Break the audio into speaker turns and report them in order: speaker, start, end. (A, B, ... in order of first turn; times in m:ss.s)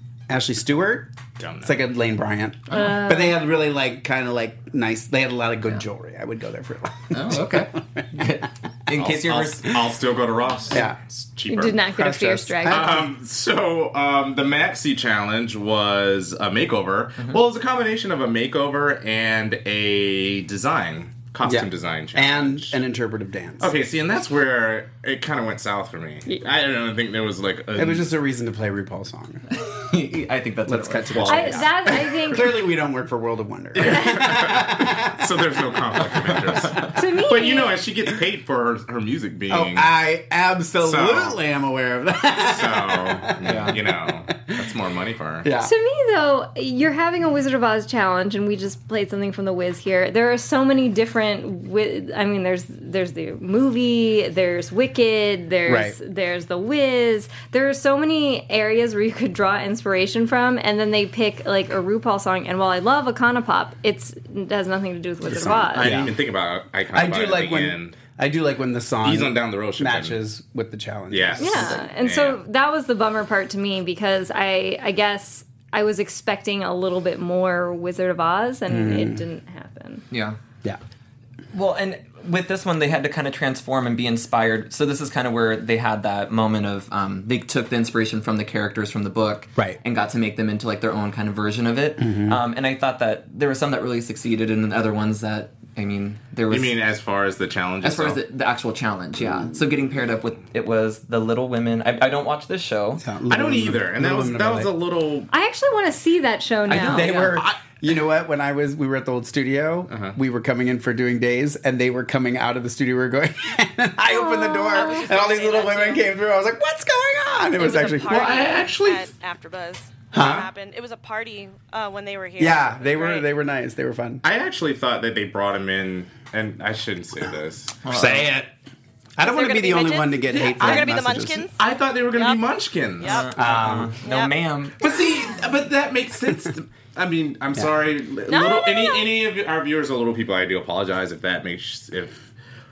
0:00.3-0:08.3 A
0:01.4-0:01.8 B
0:02.7-0:03.4 C
0:07.1-0:09.7 D
0:09.0-0:11.8 B
0:10.7-0:11.0 A
0:11.5-0:12.9 C
0:11.8-0:13.1 A
0:12.7-0:22.8 B
0:21.4-0:23.7 A
0:23.6-0:28.1 B
0:27.8-0:29.4 A
0:29.5-0:31.6 D
0:30.6-0:36.9 A
0:31.2-0:31.6 B
0:31.3-0:32.5 C
0:33.8-0:39.9 B
0:37.0-0:37.8 C
0:39.5-0:44.1 A
0:40.8-0:41.4 B
0:42.4-0:45.5 B
0:43.4-0:43.8 D
0:45.4-0:45.7 A
0:45.6-1:06.0 C
0:55.7-0:56.0 A
1:05.2-1:06.2 A
1:05.8-1:08.0 B
1:06.9-1:11.9 A
1:09.0-1:10.2 B
1:11.1-1:12.4 B
1:11.4-1:20.0 C
1:18.7-1:19.2 A
1:20.1-1:20.4 D
1:21.5-1:36.8 D
1:32.0-1:32.4 A
1:36.5-1:38.2 B
1:37.8-1:43.0 D
1:43.0-1:44.7 A
1:43.3-1:45.3 B
1:45.3-1:47.2 C
1:46.7-1:47.5 D
1:46.8-1:58.4 A
1:49.9-1:50.2 B
1:54.1-1:55.0 C
1:54.7-1:56.1 E
1:57.6-2:03.3 E
1:58.1-1:59.1 B
2:00.1-2:00.5 A
2:00.1-2:00.5 B
2:02.4-2:04.2 A
2:04.2-2:08.1 B
2:07.8-2:08.3 D
2:07.9-2:08.5 A
2:09.2-2:11.4 A
2:09.2-2:11.6 E
2:10.5-2:10.8 B
2:11.6-2:13.2 B
2:12.1-2:12.5 E
2:13.0-2:14.4 E
2:13.0-2:14.8 D
2:13.3-2:14.0 A
2:14.8-2:22.3 B
2:18.3-2:19.1 C